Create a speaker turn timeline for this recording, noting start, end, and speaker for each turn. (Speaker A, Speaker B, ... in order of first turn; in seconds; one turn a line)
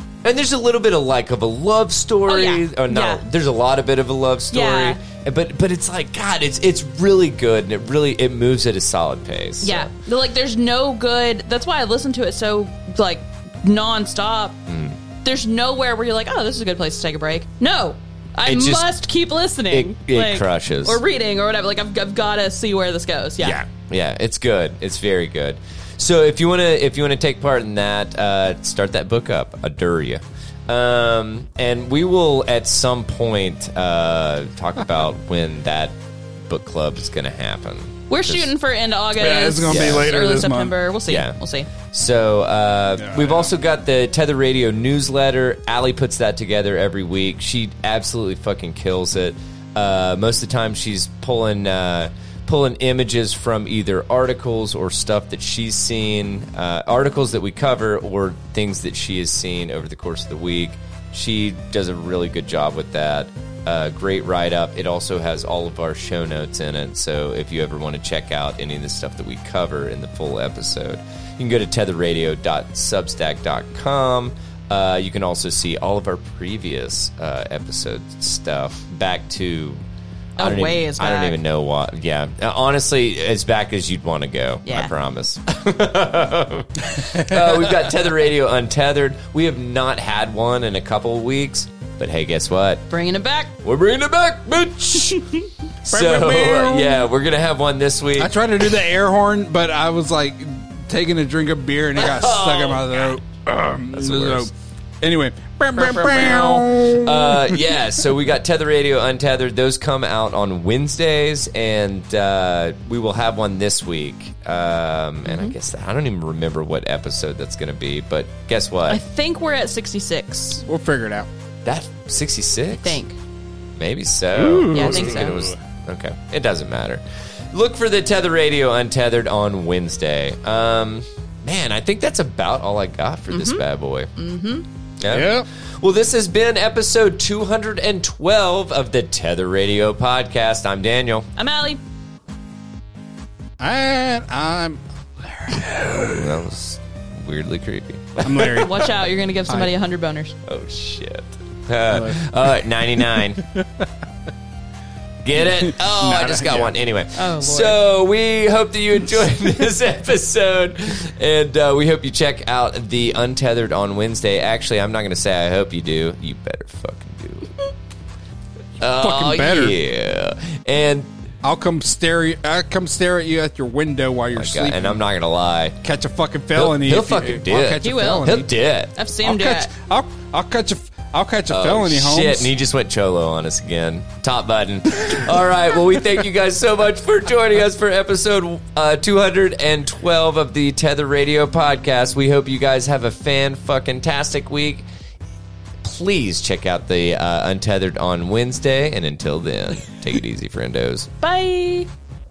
Speaker A: 0.2-9.9
Speaker B: 2.3-3.2
Speaker B: 4.5-5.0
Speaker B: 9.6-14.6
Speaker A: 14.7-15.0
Speaker B: 15.2-23.6
Speaker A: 18.4-18.9
Speaker A: 19.7-21.0
Speaker A: 23.4-38.5
Speaker B: 38.1-41.7
Speaker C: 39.2-40.8
Speaker A: 39.6-40.1
Speaker A: 41.1-79.8
Speaker C: 43.0-43.5
Speaker B: 80.4-81.3
Speaker A: 80.4-92.8
Speaker B: 84.7-84.9
Speaker C: 87.0-87.7
Speaker B: 92.9-93.5
Speaker A: 93.6-95.2
Speaker A: 95.8-98.7
Speaker C: 95.9-97.0
Speaker C: 98.2-107.7
Speaker A: 102.0-103.2
Speaker A: 103.9-104.5
Speaker B: 105.8-106.7
Speaker A: 106.3-119.0
Speaker B: 115.2-115.5
Speaker B: 118.9-120.6
Speaker C: 120.6-121.3
Speaker A: 121.6-123.0
Speaker B: 122.8-123.2
Speaker A: 123.8-134.1
Speaker C: 124.3-125.5
Speaker B: 124.7-125.4
Speaker B: 133.3-133.6
Speaker B: 134.2-134.6
Speaker A: 135.0-141.3
Speaker C: 135.1-135.4
Speaker B: 141.4-141.8
Speaker C: 143.6-146.3
Speaker A: 145.9-148.7
Speaker C: 148.2-148.9
Speaker B: 148.4-150.3
Speaker A: 150.4-153.4
Speaker C: 151.9-152.2
Speaker C: 153.1-153.6
Speaker A: 155.2-167.5
Speaker C: 155.4-156.8
Speaker B: 157.2-157.8
Speaker A: 168.8-171.1
Speaker C: 168.9-169.8
Speaker C: 171.4-175.0
Speaker A: 174.3-175.8
Speaker C: 175.8-178.5
Speaker A: 176.5-178.9
Speaker B: 177.8-178.4
Speaker B: 178.9-179.7
Speaker C: 179.2-182.5
Speaker A: 181.5-194.8
Speaker A: 195.8-201.1
Speaker B: 201.2-201.9